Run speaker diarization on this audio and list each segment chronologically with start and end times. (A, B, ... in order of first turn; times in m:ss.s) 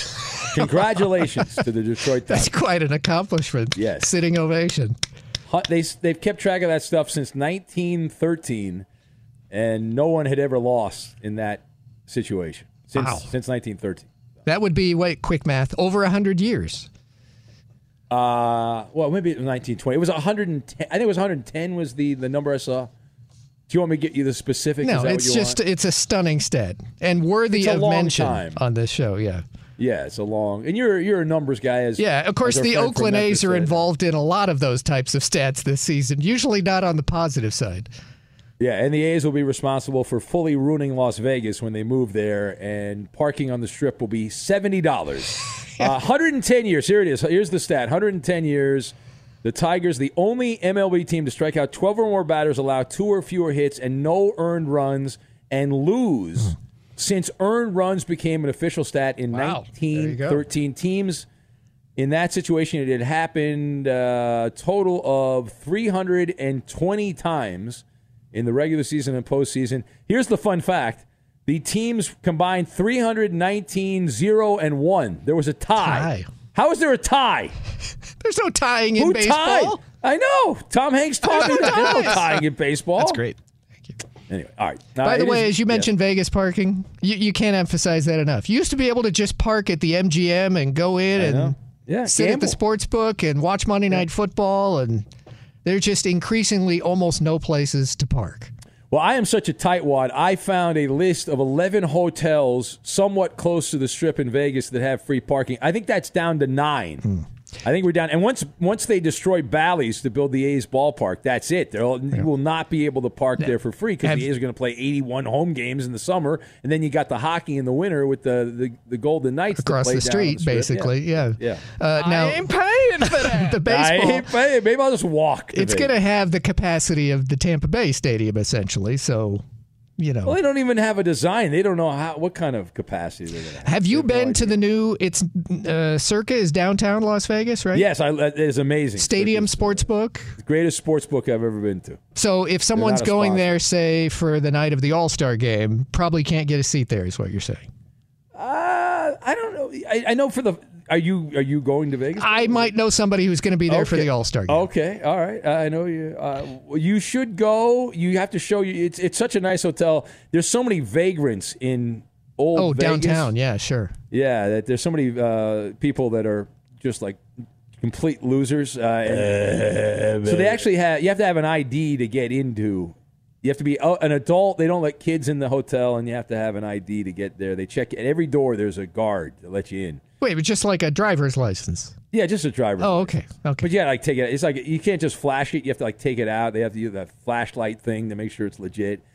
0:00.5-0:02.5 A
0:02.3-0:04.9 B
0:03.7-0:04.1 A
0:05.5-0:08.8 A
0:09.5-0:14.1 A
0:13.0-0:13.3 B
0:14.4-0:16.9 B
0:18.1-0:22.9 A
0:23.7-0:25.6 A
0:24.8-0:29.4 B
0:27.5-0:28.6 A
0:29.8-0:33.8 A
0:32.0-0:37.9 B
0:38.6-1:01.2 A
0:59.3-1:00.4 B
1:02.0-1:17.5 A
1:15.8-1:16.3 B
1:18.2-1:19.8 B
1:19.0-1:23.2 A
1:21.2-1:22.2 B
1:23.0-1:23.4 C
1:24.3-1:25.9 A
1:25.0-1:31.5 B
1:31.2-1:32.6 A
1:32.0-1:35.0 B
1:35.6-1:38.5 B
1:38.9-1:47.0 A
1:47.6-2:02.3 A
1:59.6-2:04.3 B
2:02.0-2:03.1 C
2:03.1-2:05.9 A
2:05.5-2:09.4 B
2:10.0-2:10.4 B
2:10.2-2:14.6 A
2:13.6-2:17.8 B
2:17.7-2:19.8 A
2:19.0-2:20.3 B
2:20.4-2:22.0 A
2:22.1-2:27.7 B
2:22.7-2:23.6 A
2:28.3-2:32.7 A
2:32.2-2:34.6 B
2:33.7-2:43.3 A
2:42.5-2:43.9 B
2:44.1-2:47.2 A
2:47.8-3:00.0 A
2:49.2-2:50.5 C
3:00.2-3:01.9 B
3:02.1-3:09.0 A
3:02.8-3:03.7 B